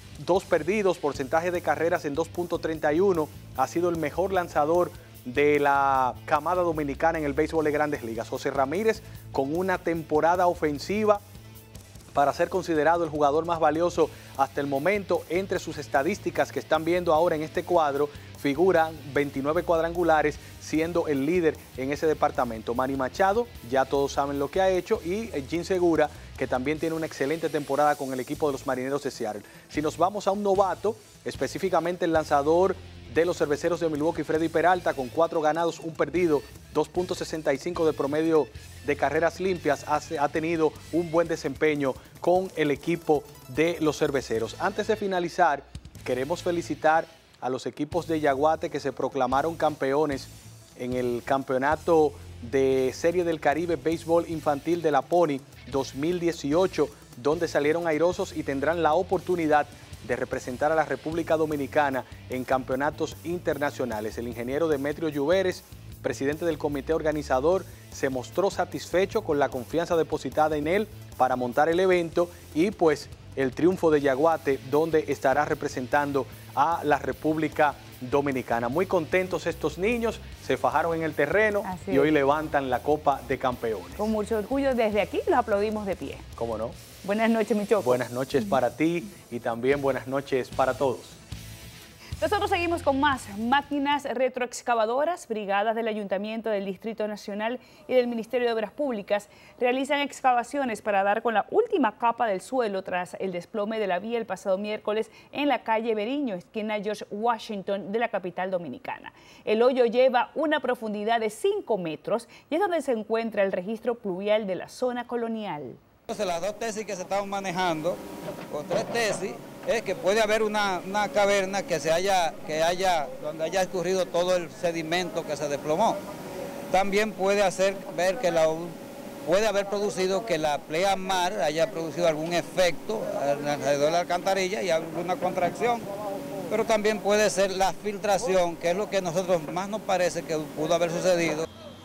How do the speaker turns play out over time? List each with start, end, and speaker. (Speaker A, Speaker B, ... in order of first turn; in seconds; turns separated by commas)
Speaker A: 0.2-11.2, Speaker A: 12.1-84.0, Speaker B: 81.6-82.1, Speaker B: 84.0-86.2, Speaker A: 86.4-86.8, Speaker B: 87.0-88.0, Speaker A: 87.8-91.2, Speaker B: 92.2-115.8, Speaker C: 116.1-126.0, Speaker C: 126.7-135.9, Speaker C: 136.5-141.4